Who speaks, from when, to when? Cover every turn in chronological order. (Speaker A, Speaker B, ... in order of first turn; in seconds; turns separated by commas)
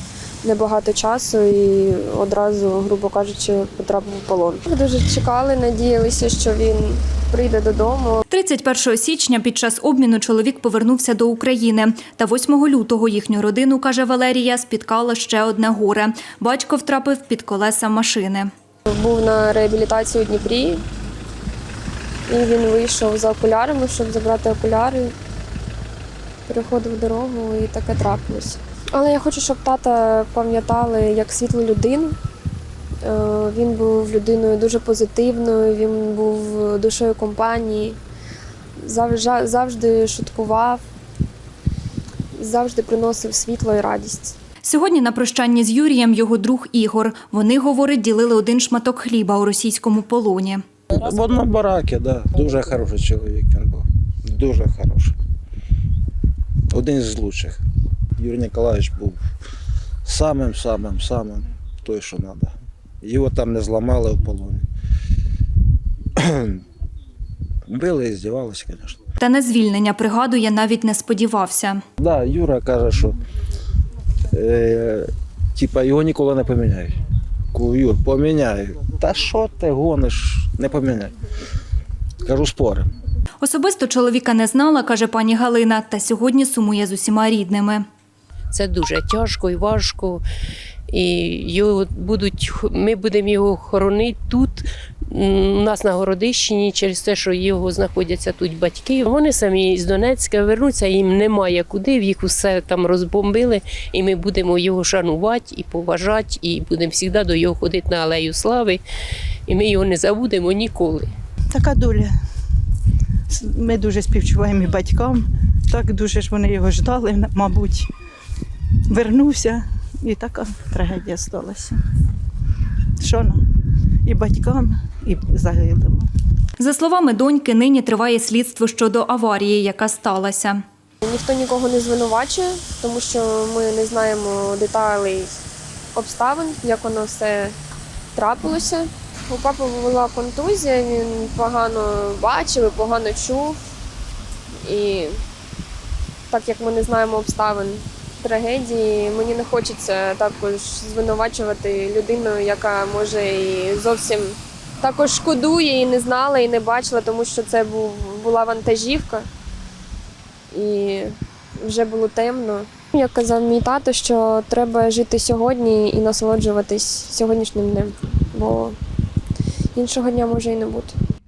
Speaker A: 0.4-8.2, Speaker B: 8.3-18.5, Speaker A: 18.9-20.8, Speaker A: 22.3-25.1, Speaker A: 26.5-32.2, Speaker A: 33.0-38.0, Speaker A: 38.8-40.8, Speaker A: 42.3-44.3, Speaker B: 44.6-50.6, Speaker C: 50.9-55.1, Speaker C: 56.7-57.6, Speaker C: 58.2-59.2, Speaker C: 60.0-64.6, Speaker C: 66.2-66.6, Speaker C: 67.7-69.0, Speaker B: 69.2-71.8, Speaker C: 72.0-73.2, Speaker C: 74.3-77.0, Speaker C: 77.5-81.1, Speaker C: 82.2-82.8, Speaker B: 83.4-87.8, Speaker D: 88.5-90.2, Speaker D: 90.9-108.8, Speaker D: 109.5-111.1, Speaker E: 111.5-112.1, Speaker E: 113.3-117.9, Speaker E: 118.9-121.8, Speaker E: 123.0-123.4, Speaker E: 124.0-126.1, Speaker B: 126.6-130.6, Speaker A: 131.0-135.4, Speaker A: 135.9-137.5, Speaker A: 138.1-143.6, Speaker A: 144.6-145.2, Speaker A: 146.3-159.3, Speaker A: 160.5-168.8, Speaker A: 169.7-170.9